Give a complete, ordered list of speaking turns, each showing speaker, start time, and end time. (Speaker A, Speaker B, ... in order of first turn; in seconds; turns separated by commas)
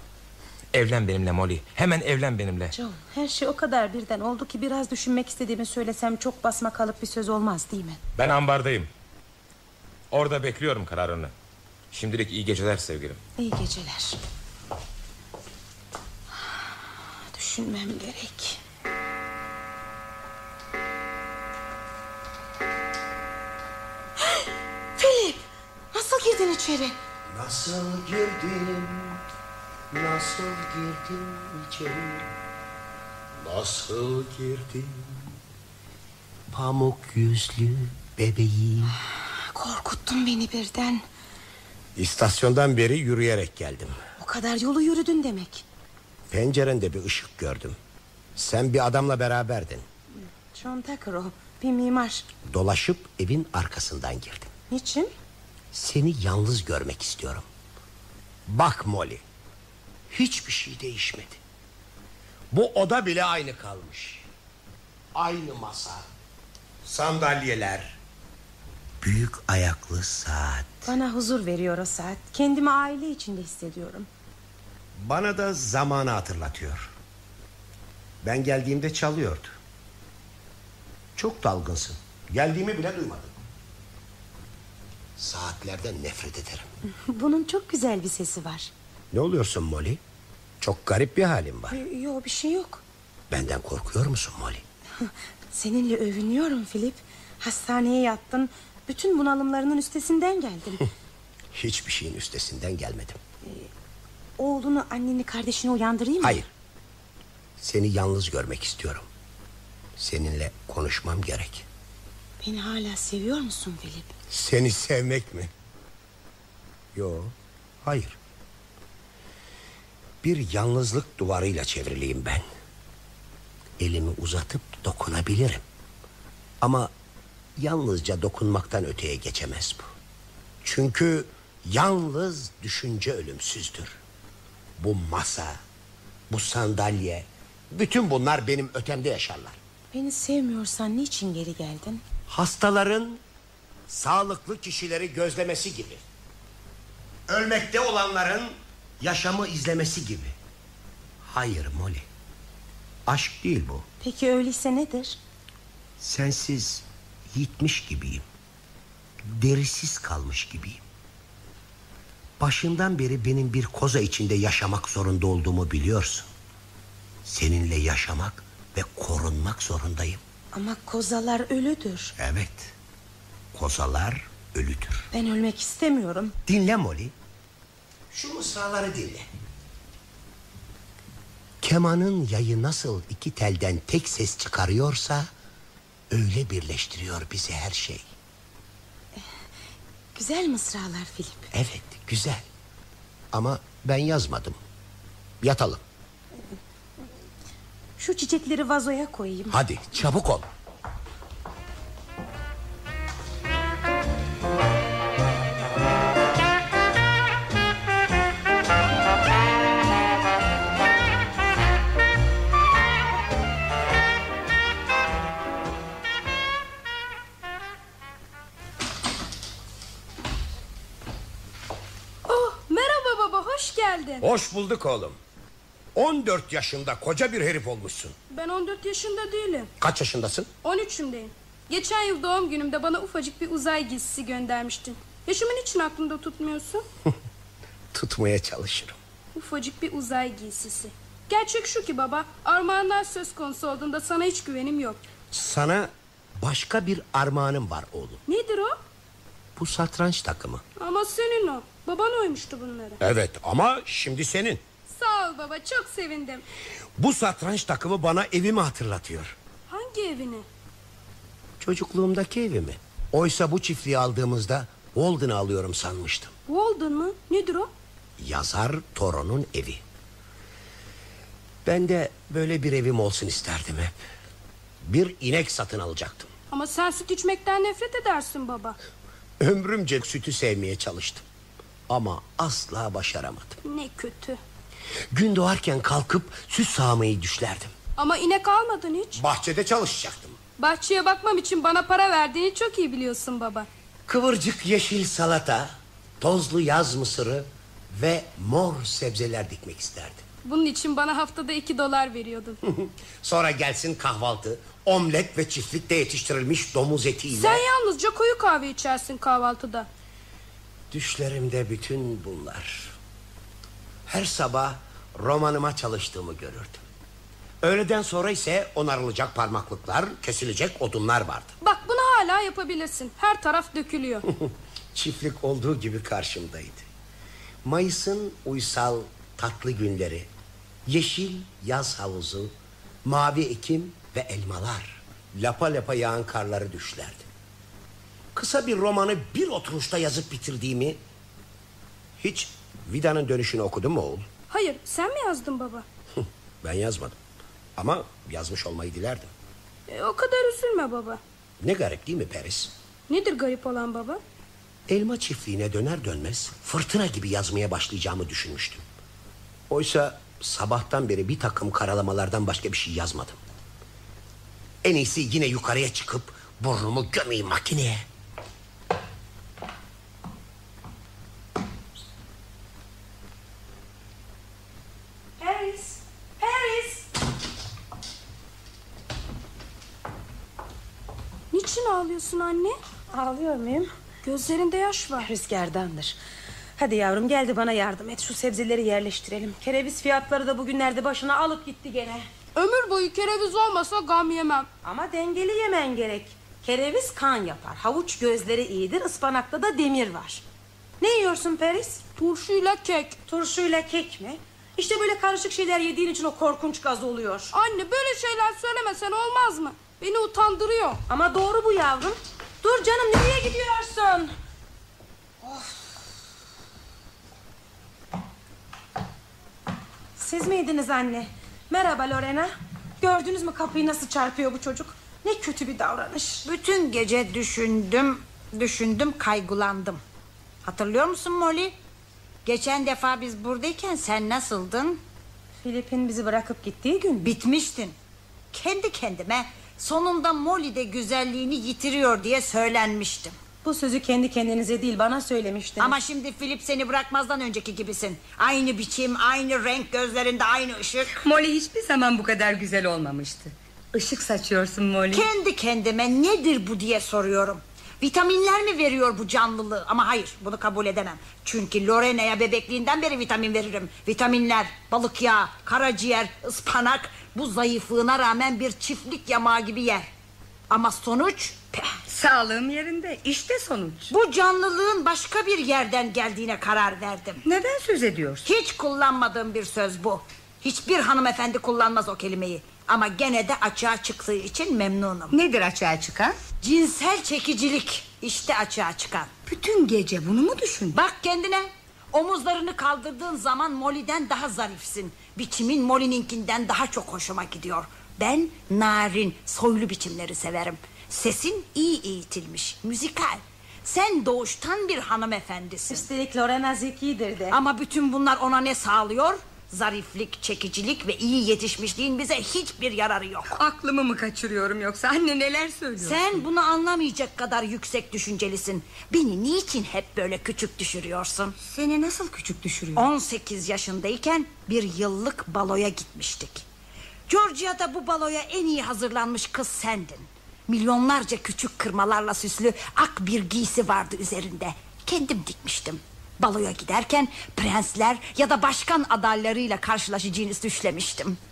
Speaker A: 0.7-2.8, Speaker B: 2.8-8.0, Speaker A: 8.2-8.9, Speaker A: 10.1-11.3, Speaker A: 11.9-13.2, Speaker B: 13.4-14.2, Speaker B: 17.3-18.6, Speaker B: 24.2-27.0, Speaker C: 27.3-29.2, Speaker C: 29.9-32.3, Speaker C: 33.4-35.3, Speaker C: 36.5-39.0, Speaker B: 39.5-41.0, Speaker C: 42.0-44.0, Speaker B: 44.2-45.6, Speaker C: 46.3-47.8, Speaker C: 48.4-49.9, Speaker B: 50.5-52.3, Speaker C: 52.5-54.5, Speaker B: 54.7-55.1, Speaker C: 55.7-57.5, Speaker C: 58.5-59.2, Speaker C: 60.1-61.4, Speaker C: 62.5-64.3, Speaker C: 65.2-66.1, Speaker C: 66.8-68.0, Speaker C: 69.0-70.9, Speaker B: 70.9-74.1, Speaker C: 75.0-76.9, Speaker C: 78.2-79.5, Speaker C: 81.2-83.3, Speaker C: 85.2-86.7, Speaker B: 87.1-88.7, Speaker C: 89.1-90.0, Speaker C: 90.6-91.8, Speaker B: 91.7-92.8, Speaker C: 93.3-94.6, Speaker B: 95.0-100.9, Speaker C: 101.5-103.2, Speaker B: 103.4-103.7, Speaker B: 104.4-106.4, Speaker C: 106.2-106.5, Speaker C: 107.6-109.1, Speaker C: 110.0-111.7, Speaker B: 112.4-114.1, Speaker C: 114.3-115.5, Speaker C: 116.9-118.2, Speaker C: 120.2-122.5, Speaker C: 123.8-125.7, Speaker C: 126.6-126.9, Speaker C: 127.6-129.9, Speaker C: 130.6-134.0, Speaker C: 134.8-135.6, Speaker C: 136.3-139.6, Speaker B: 139.9-142.0, Speaker C: 142.3-143.2, Speaker C: 143.9-146.0, Speaker C: 147.3-150.3, Speaker C: 151.2-152.1, Speaker C: 153.1-153.8, Speaker B: 154.0-155.2, Speaker C: 156.0-158.2, Speaker C: 159.3-160.8, Speaker C: 162.4-166.3, Speaker C: 167.2-170.2, Speaker B: 170.5-172.1, Speaker C: 172.2-172.7, Speaker C: 173.5-175.1, Speaker B: 175.1-176.4, Speaker C: 176.5-177.1, Speaker C: 178.1-179.3, Speaker C: 181.6-185.3, Speaker C: 186.1-188.1, Speaker B: 190.2-191.5, Speaker C: 191.5-192.5, Speaker C: 193.3-194.6, Speaker C: 195.4-195.8, Speaker B: 198.0-199.6, Speaker C: 199.5-200.5, Speaker D: 222.3-224.2, Speaker C: 224.2-225.2, Speaker C: 225.9-228.2, Speaker D: 228.3-229.7, Speaker C: 229.8-230.5, Speaker D: 230.6-236.8, Speaker C: 237.9-239.0, Speaker D: 239.3-245.0, Speaker C: 245.3-248.2, Speaker D: 248.3-248.8, Speaker C: 249.6-250.6, Speaker D: 250.8-253.0, Speaker C: 253.0-254.6, Speaker D: 254.9-256.4, Speaker C: 257.0-259.4, Speaker D: 259.7-260.5, Speaker C: 261.6-266.3, Speaker D: 266.5-267.7, Speaker C: 268.2-269.8, Speaker C: 271.6-274.0, Speaker C: 274.8-276.3, Speaker D: 276.5-278.8, Speaker C: 279.4-281.2, Speaker C: 281.9-283.6, Speaker D: 283.6-284.4, Speaker C: 285.1-287.7, Speaker D: 288.0-289.2, Speaker C: 289.2-290.4, Speaker D: 290.6-293.7, Speaker C: 294.1-300.2, Speaker D: 300.4-302.6, Speaker C: 302.6-307.6, Speaker D: 307.3-309.9, Speaker C: 310.9-312.9, Speaker C: 314.1-316.8, Speaker C: 317.6-321.6, Speaker D: 321.6-324.3, Speaker C: 324.3-326.9, Speaker C: 327.6-330.3, Speaker C: 330.9-337.3, Speaker C: 338.3-341.0, Speaker C: 342.2-344.3, Speaker D: 344.5-345.9, Speaker C: 346.2-347.2, Speaker C: 347.8-349.3, Speaker D: 349.9-351.2, Speaker C: 351.6-352.7, Speaker D: 353.1-354.2, Speaker C: 354.9-358.9, Speaker C: 359.7-363.4, Speaker C: 364.8-368.1, Speaker B: 375.4-377.1, Speaker D: 381.5-382.8, Speaker B: 383.1-383.9, Speaker D: 384.2-385.3, Speaker B: 385.2-386.2, Speaker B: 386.8-392.3, Speaker D: 392.6-394.7, Speaker B: 394.8-400.4, Speaker B: 401.0-402.0, Speaker D: 402.2-403.2, Speaker B: 403.3-407.5, Speaker D: 407.5-411.0, Speaker B: 411.1-414.3, Speaker B: 415.4-415.9, Speaker B: 420.2-426.5, Speaker E: 426.4-430.0, Speaker E: 430.6-431.8, Speaker E: 432.4-435.0, Speaker B: 435.6-437.3, Speaker E: 437.2-438.0, Speaker E: 438.5-443.4, Speaker B: 443.6-446.0, Speaker E: 445.8-451.1, Speaker F: 451.1-455.3, Speaker E: 455.1-470.1, Speaker E: 470.7-472.0, Speaker F: 472.1-474.1, Speaker E: 474.1-477.4, Speaker F: 477.4-478.5, Speaker E: 478.4-485.4, Speaker F: 485.3-486.4, Speaker E: 486.6-489.3, Speaker F: 489.5-491.0, Speaker E: 490.9-506.1, Speaker B: 505.9-507.6, Speaker E: 507.5-513.5, Speaker F: 513.5-516.2, Speaker E: 516.0-521.5, Speaker F: 521.6-523.1, Speaker E: 523.0-526.6, Speaker E: 527.3-541.4